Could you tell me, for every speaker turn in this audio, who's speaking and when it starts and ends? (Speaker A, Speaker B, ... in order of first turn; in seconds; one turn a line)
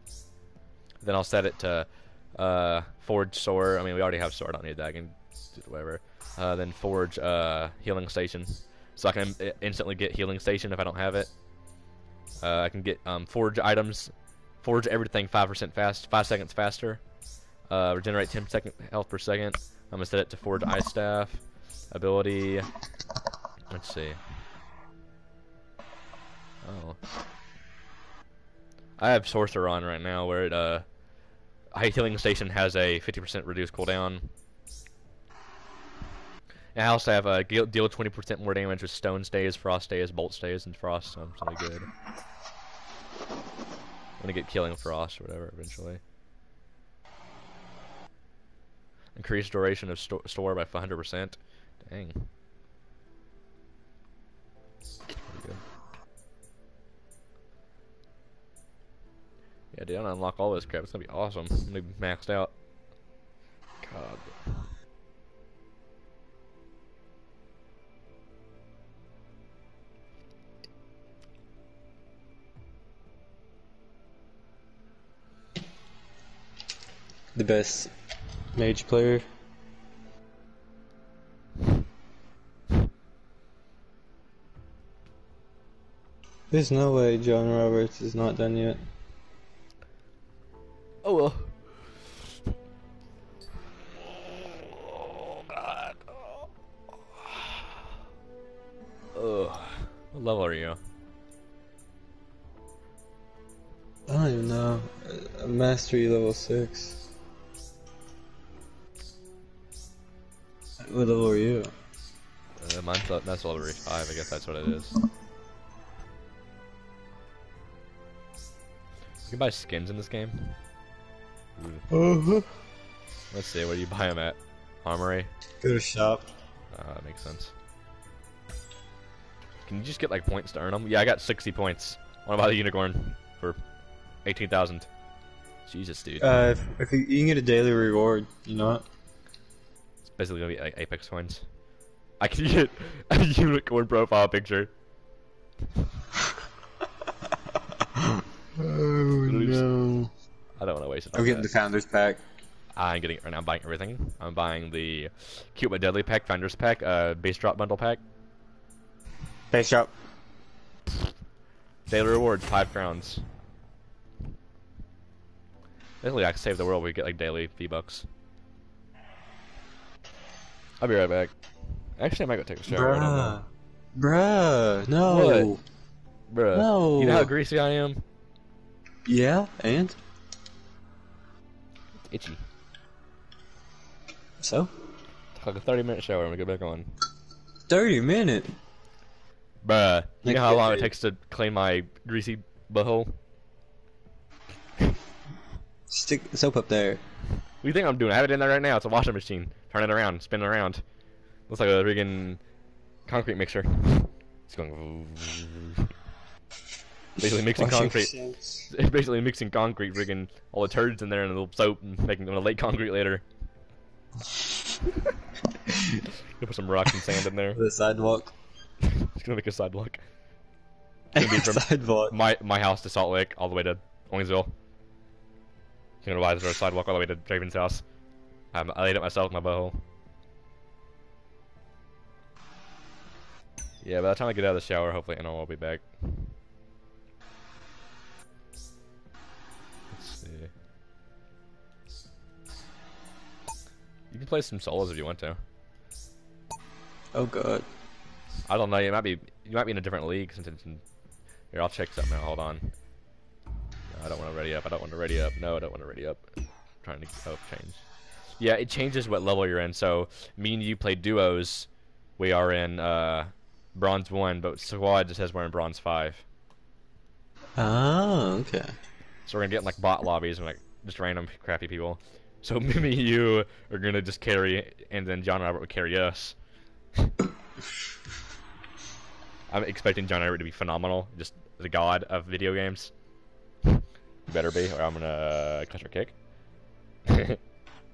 Speaker A: 1.0-11.4
Speaker A: 12.4-22.7
Speaker A: 23.7-24.2
Speaker A: 26.6-27.0
Speaker A: 29.0-31.0
Speaker A: 31.7-34.3
Speaker A: 36.7-41.9
Speaker A: 44.2-46.0
Speaker A: 49.1-52.3
Speaker A: 55.2-55.6
Speaker A: 59.7-62.5
Speaker A: 63.8-64.7
Speaker B: 77.3-77.9
Speaker B: 78.5-79.3
Speaker B: 86.5-88.9
Speaker A: 91.0-91.9
Speaker A: 94.8-96.5
Speaker A: 97.2-97.5
Speaker A: 99.1-100.8
Speaker B: 104.1-107.0
Speaker B: 110.8-111.7
Speaker A: 112.6-115.0
Speaker A: 119.3-120.6
Speaker A: 121.6-121.9
Speaker B: 121.9-122.6
Speaker A: 123.3-125.3
Speaker B: 125.6-126.3
Speaker A: 126.7-127.5
Speaker A: 129.7-134.9
Speaker A: 135.7-136.3
Speaker B: 136.2-138.8
Speaker A: 140.1-141.6
Speaker A: 142.2-144.8
Speaker B: 148.6-150.1
Speaker A: 149.2-149.7
Speaker A: 150.6-151.5
Speaker B: 151.1-152.2
Speaker A: 152.8-158.0
Speaker B: 159.5-159.9
Speaker A: 161.9-163.3
Speaker A: 166.0-168.1
Speaker A: 170.8-173.4
Speaker B: 172.7-175.6
Speaker A: 175.0-175.5
Speaker A: 176.3-178.1
Speaker B: 176.5-177.3
Speaker B: 179.1-180.0
Speaker A: 182.1-182.5
Speaker B: 184.4-184.7
Speaker A: 185.3-186.9
Speaker B: 187.7-188.6
Speaker A: 189.6-193.2
Speaker B: 190.2-190.9
Speaker B: 195.9-197.0
Speaker A: 197.6-200.8
Speaker A: 201.5-202.5
Speaker A: 203.0-205.7
Speaker A: 207.2-208.2
Speaker B: 207.5-208.7
Speaker A: 208.7-213.2
Speaker A: 216.4-217.6
Speaker B: 217.5-218.3
Speaker A: 218.9-220.0
Speaker B: 221.2-222.1
Speaker A: 221.2-224.6
Speaker A: 226.0-227.9
Speaker A: 228.5-229.8
Speaker A: 233.8-236.4
Speaker A: 239.9-240.5
Speaker A: 244.1-245.4
Speaker B: 247.1-247.7
Speaker A: 248.5-250.8
Speaker A: 251.5-252.8
Speaker A: 253.9-266.2
Speaker B: 267.6-268.8
Speaker A: 269.3-276.4
Speaker A: 279.5-282.9
Speaker A: 284.3-286.2
Speaker A: 287.1-287.4